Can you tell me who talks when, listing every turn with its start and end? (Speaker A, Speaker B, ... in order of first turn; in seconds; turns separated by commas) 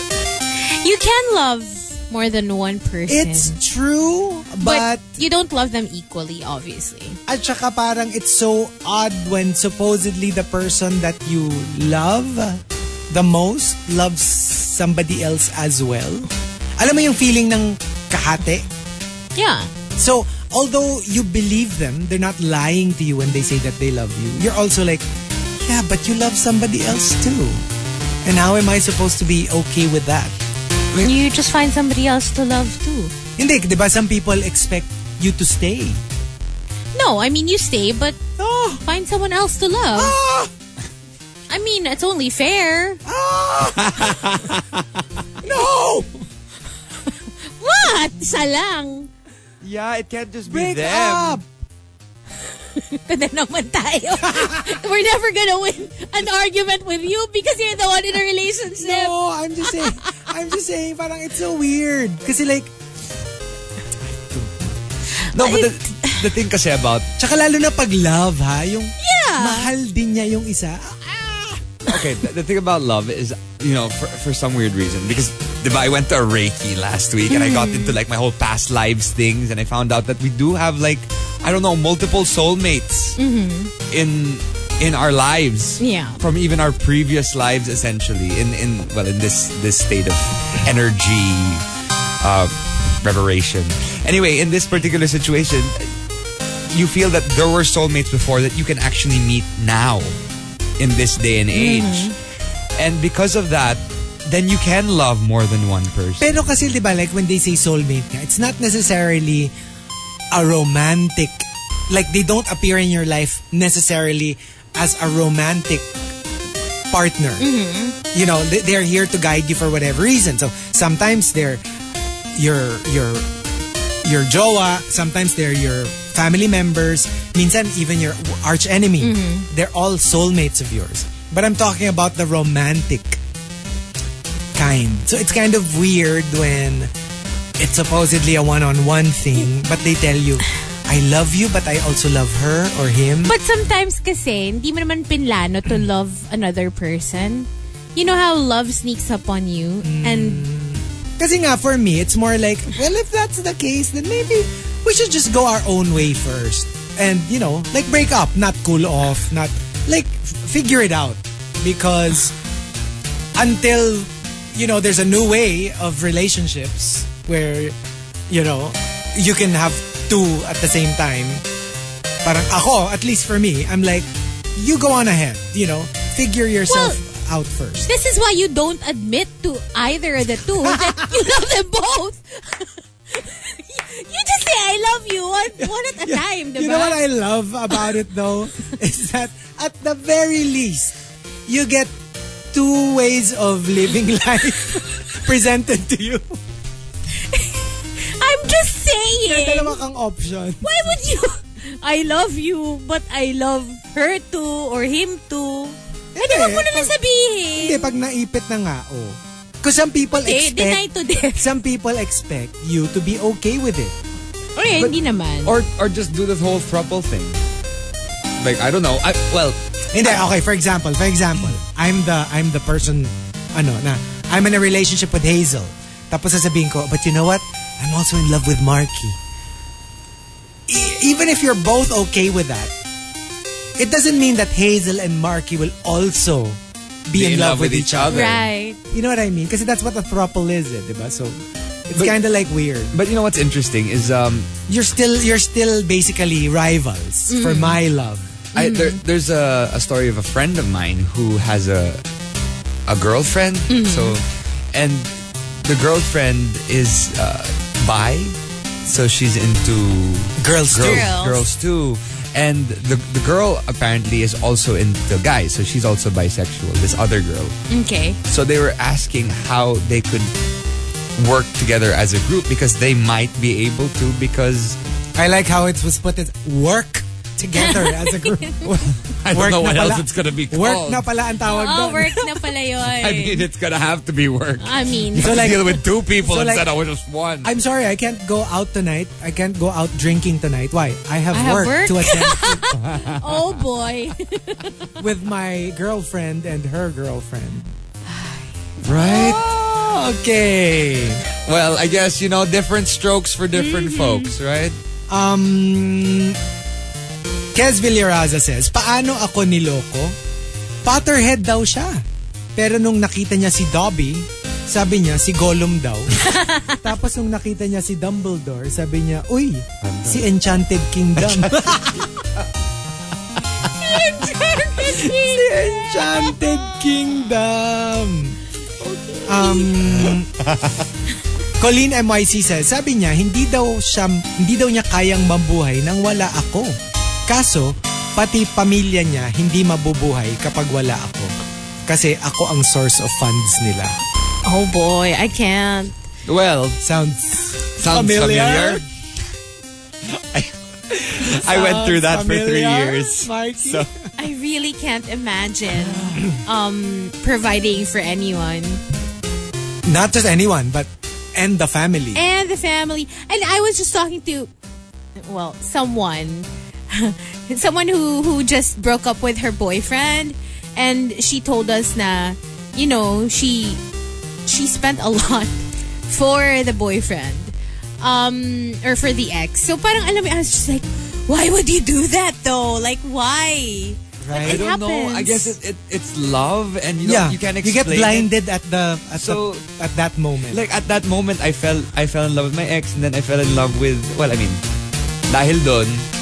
Speaker A: 0.6-3.6, Speaker B: 3.1-5.1, Speaker A: 4.6-7.2, Speaker B: 7.3-18.7, Speaker A: 19.4-19.7, Speaker B: 19.9-25.1, Speaker B: 25.6-27.6, Speaker B: 28.2-30.3, Speaker A: 31.0-33.1, Speaker B: 33.4-36.0, Speaker A: 36.9-38.2, Speaker B: 38.4-38.8, Speaker A: 38.8-40.1, Speaker B: 39.9-40.5, Speaker A: 41.5-43.0, Speaker B: 43.0-44.3, Speaker C: 43.8-45.0, Speaker B: 45.4-46.2, Speaker A: 47.6-49.1, Speaker C: 49.6-51.4, Speaker B: 50.5-51.4, Speaker A: 52.6-60.0, Speaker B: 54.2-54.7, Speaker B: 58.8-62.7, Speaker B: 64.2-64.7, Speaker A: 65.2-66.2, Speaker C: 65.3-67.1, Speaker B: 67.2-72.0, Speaker A: 69.0-69.7, Speaker C: 71.9-83.2, Speaker A: 77.3-78.0, Speaker A: 83.2-83.7, Speaker C: 83.9-91.6, Speaker A: 85.8-86.2, Speaker C: 92.2-95.9, Speaker C: 96.7-100.2, Speaker C: 100.8-102.2, Speaker A: 101.5-102.1, Speaker C: 102.8-106.4, Speaker B: 106.2-109.5, Speaker B: 110.3-115.9, Speaker B: 116.9-117.5, Speaker A: 117.4-118.0, Speaker B: 118.1-121.6, Speaker B: 122.3-123.3, Speaker B: 124.0-133.2, Speaker A: 129.0-129.5, Speaker B: 134.5-136.9, Speaker B: 137.6-143.3, Speaker A: 143.2-150.4, Speaker B: 149.8-162.3, Speaker B: 163.3-167.8, Speaker B: 168.3-171.4, Speaker B: 172.2-177.9, Speaker A: 176.7-177.0, Speaker A: 177.8-187.0, Speaker B: 180.6-181.1, Speaker B: 185.6-190.9, Speaker B: 191.5-191.9, Speaker B: 192.5-196.4, Speaker A: 197.2-199.8, Speaker B: 199.2-200.9, Speaker A: 200.6-207.9, Speaker B: 206.1-206.9, Speaker B: 207.5-210.8, Speaker A: 210.1-211.6, Speaker B: 211.3-213.9, Speaker A: 214.6-215.5, Speaker C: 214.7-217.4, Speaker C: 218.4-219.6, Speaker B: 219.9-229.2, Speaker B: 230.7-232.7, Speaker B: 233.8-238.3, Speaker C: 237.1-238.5, Speaker A: 238.1-238.8, Speaker B: 238.9-242.9, Speaker C: 242.9-244.5, Speaker B: 244.7-248.3, Speaker A: 247.3-247.8, Speaker A: 248.5-249.0, Speaker C: 248.5-252.0, Speaker C: 252.9-255.1, Speaker A: 253.7-254.2, Speaker C: 255.6-267.5, Speaker B: 260.4-261.1, Speaker A: 260.8-261.4, Speaker A: 267.7-268.2, Speaker C: 268.3-270.3, Speaker C: 271.2-274.8, Speaker B: 275.1-278.7, Speaker A: 277.6-278.6, Speaker C: 278.6-281.1, Speaker B: 279.3-282.3, Speaker A: 281.4-283.4, Speaker C: 282.8-287.5, Speaker A: 284.6-285.5, Speaker B: 285.2-286.7, Speaker B: 287.4-292.6, Speaker A: 291.3-294.9, Speaker C: 292.7-293.6, Speaker B: 295.0-297.7, Speaker A: 298.1-298.5, Speaker C: 298.8-299.4, Speaker B: 298.9-301.2, Speaker C: 301.4-304.8, Speaker A: 303.6-304.3, Speaker B: 305.1-306.4, Speaker B: 307.5-310.1, Speaker B: 310.8-312.0, Speaker B: 312.6-322.1, Speaker A: 316.2-316.8, Speaker C: 319.8-320.3, Speaker C: 321.2-322.4, Speaker A: 323.7-326.5, Speaker B: 324.8-328.4, Speaker A: 329.1-329.7, Speaker B: 329.2-330.3, Speaker C: 329.7-330.8, Speaker B: 331.6-336.7, Speaker B: 337.3-341.3, Speaker B: 341.9-343.9, Speaker A: 344.4-345.9, Speaker C: 346.2-346.8, Speaker B: 346.8-348.8, Speaker C: 347.8-348.8, Speaker C: 350.1-350.5, Speaker B: 351.0-353.9, Speaker C: 351.1-353.9, Speaker A: 354.2-358.8, Speaker B: 359.9-362.2, Speaker A: 362.1-364.5, Speaker A: 365.2-373.8, Speaker A: 374.4-375.5, Speaker A: 376.1-385.5, Speaker B: 384.2-384.6, Speaker C: 384.4-388.3, Speaker B: 387.0-390.6, Speaker C: 389.1-389.6, Speaker C: 390.5-394.6, Speaker C: 395.3-396.1